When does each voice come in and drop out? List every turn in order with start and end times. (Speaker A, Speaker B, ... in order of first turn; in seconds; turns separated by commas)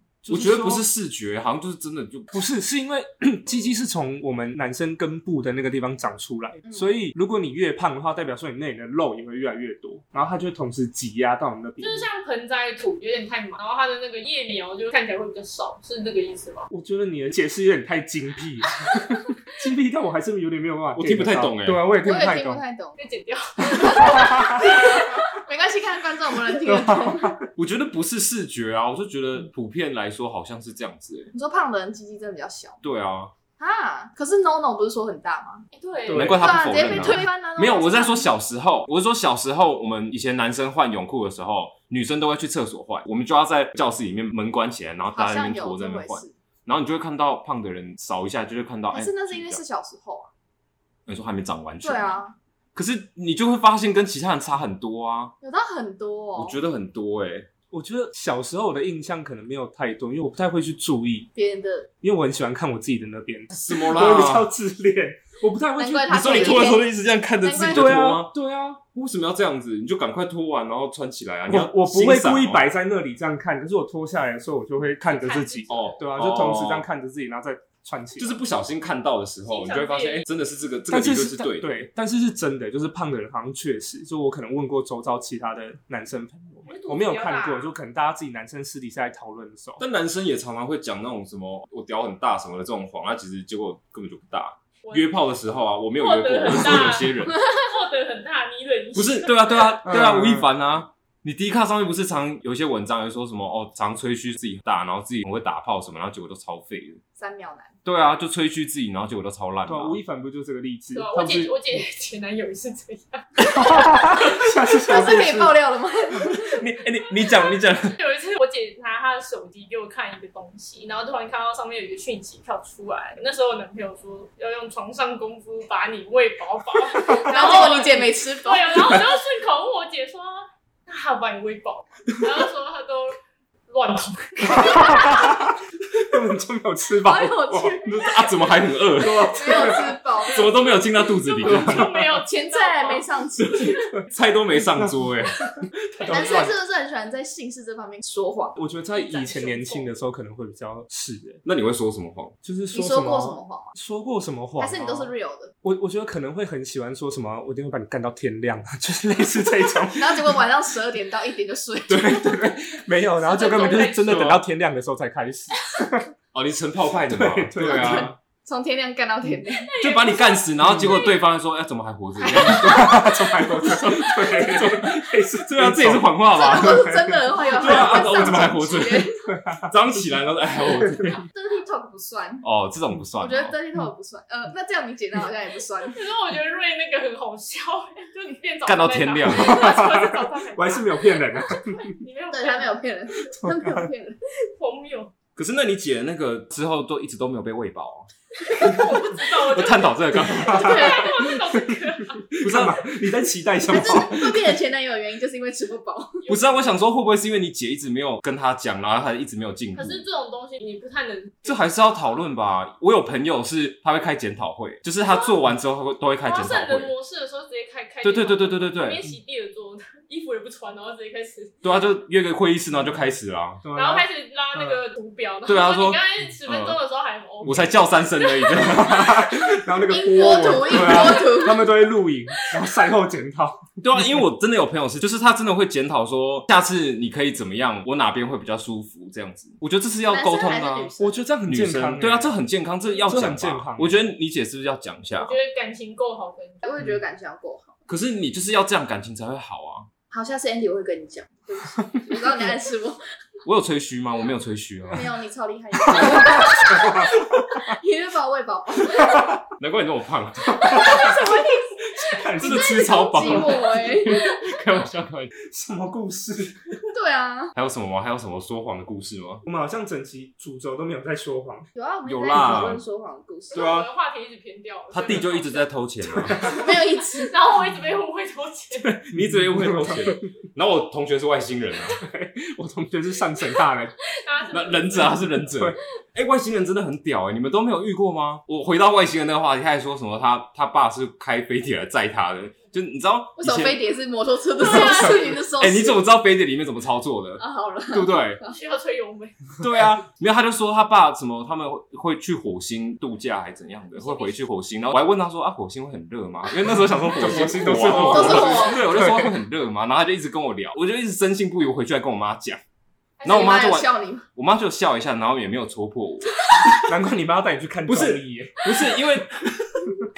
Speaker A: 0.2-0.8, Speaker B: 0.3-2.4, Speaker A: 2.3-12.1, Speaker C: 6.6-6.9, Speaker D: 11.8-16.7, Speaker A: 16.7-22.6, Speaker B: 20.9-21.8, Speaker C: 22.0-23.0, Speaker D: 23.0-25.3, Speaker C: 23.7-27.4, Speaker A: 24.2-24.6, Speaker A: 26.6-27.4, Speaker B: 27.6-31.3, Speaker C: 31.3-32.8, Speaker B: 32.8-33.3, Speaker C: 33.6-35.6, Speaker D: 35.7-36.3, Speaker A: 36.1-37.2, Speaker B: 36.1-49.6, Speaker C: 36.3-38.3, Speaker C: 45.1-46.3, Speaker C: 48.9-50.3, Speaker B: 51.1-52.2, Speaker C: 51.8-52.3, Speaker B: 52.7-55.3, Speaker C: 55.4-56.6, Speaker B: 56.4-57.5, Speaker A: 57.7-61.3, Speaker C: 61.3-61.9, Speaker A: 62.0-66.7, Speaker B: 63.5-64.5, Speaker C: 65.8-66.9, Speaker B: 66.1-72.6, Speaker C: 67.4-68.0, Speaker A: 67.7-68.7, Speaker A: 71.5-78.4, Speaker D: 75.0-75.9, Speaker B: 75.7-76.9, Speaker B: 78.2-81.8, Speaker D: 79.4-80.3, Speaker A: 80.9-89.8, Speaker D: 86.7-87.7, Speaker B: 89.8-97.4, Speaker D: 94.8-95.2, Speaker D: 96.0-99.6, Speaker B: 98.9-107.0, Speaker A: 99.8-100.4, Speaker C: 107.2-107.7, Speaker B: 107.8-110.0, Speaker A: 109.7-111.6, Speaker D: 110.9-113.6, Speaker A: 113.5-115.6, Speaker C: 114.8-116.4, Speaker B: 116.2-118.0, Speaker D: 117.2-135.4, Speaker C: 127.2-128.8, Speaker A: 134.6-135.5, Speaker A: 136.1-137.8, Speaker C: 137.0-138.0, Speaker B: 137.8-141.9, Speaker A: 139.0-140.0, Speaker C: 139.2-140.8, Speaker D: 140.9-143.1, Speaker A: 141.4-141.9, Speaker C: 142.1-143.8, Speaker B: 143.4-145.7, Speaker A: 145.9-146.5, Speaker D: 146.0-146.5, Speaker C: 146.1-148.6, Speaker A: 148.6-151.4, Speaker D: 148.9-149.9, Speaker B: 151.4-152.3, Speaker A: 152.4-155.1, Speaker C: 152.7-153.7, Speaker C: 154.6-155.5, Speaker A: 155.6-160.4, Speaker C: 159.8-162.3, Speaker A: 161.9-166.1, Speaker D: 163.2-164.2, Speaker B: 163.9-164.4, Speaker B: 166.3-168.2, Speaker A: 167.1-168.1, Speaker C: 167.6-169.7, Speaker D: 169.5-171.2, Speaker B: 169.8-172.9, Speaker C: 172.2-174.3, Speaker A: 172.3-178.5, Speaker B: 173.6-181.2, Speaker C: 176.3-179.2, Speaker A: 179.3-179.6, Speaker C: 181.2-182.4, Speaker B: 182.4-183.6, Speaker C: 183.2-186.0, Speaker D: 185.8-192.8, Speaker B: 188.7-189.9, Speaker A: 189.5-192.0, Speaker C: 192.3-194.2, Speaker A: 193.3-193.9, Speaker D: 194.5-195.1, Speaker B: 195.3-198.1, Speaker D: 198.5-202.3, Speaker B: 199.1-201.1, Speaker A: 200.4-200.9, Speaker C: 200.5-201.1, Speaker A: 202.3-204.5, Speaker B: 202.4-202.8, Speaker C: 203.7-206.1, Speaker D: 206.2-206.8, Speaker B: 206.3-210.0, Speaker D: 209.7-212.1, Speaker B: 211.4-216.9, Speaker D: 216.2-221.7, Speaker B: 218.0-219.1, Speaker B: 221.6-223.6, Speaker A: 223.6-224.8, Speaker D: 223.7-229.3, Speaker B: 225.4-226.8, Speaker B: 227.4-229.3, Speaker A: 228.8-233.6, Speaker C: 229.9-231.7, Speaker B: 233.8-240.9, Speaker C: 240.1-241.2, Speaker A: 241.0-242.3, Speaker B: 241.4-245.3, Speaker A: 243.0-244.1, Speaker D: 245.2-246.6, Speaker C: 246.6-247.7, Speaker B: 247.9-249.9, Speaker C: 250.1-253.0, Speaker B: 253.4-255.1, Speaker C: 254.9-259.4, Speaker A: 256.0-256.4, Speaker B: 259.6-261.1, Speaker C: 260.5-264.3, Speaker A: 260.6-261.2, Speaker A: 262.0-262.9, Speaker B: 262.4-265.3, Speaker A: 265.4-266.8, Speaker C: 266.9-267.5, Speaker B: 267.6-269.4, Speaker A: 269.4-271.7, Speaker C: 271.7-273.7, Speaker B: 272.0-272.8, Speaker D: 273.5-275.7, Speaker B: 273.5-273.9, Speaker B: 274.9-276.4, Speaker A: 276.2-276.7, Speaker C: 276.4-277.3, Speaker D: 277.0-279.0, Speaker A: 278.8-280.3, Speaker B: 279.1-282.0, Speaker A: 282.0-283.9, Speaker D: 284.2-285.4, Speaker B: 284.5-293.8, Speaker C: 293.4-296.0, Speaker D: 294.6-295.4, Speaker B: 294.8-298.4, Speaker C: 297.4-298.6, Speaker D: 298.4-299.4, Speaker B: 299.6-312.6, Speaker D: 303.9-304.4, Speaker A: 307.1-309.4, Speaker C: 307.8-308.8, Speaker D: 307.9-308.3, Speaker D: 313.2-313.6, Speaker C: 313.2-314.2, Speaker B: 313.2-316.4, Speaker A: 316.9-320.1, Speaker B: 317.9-319.6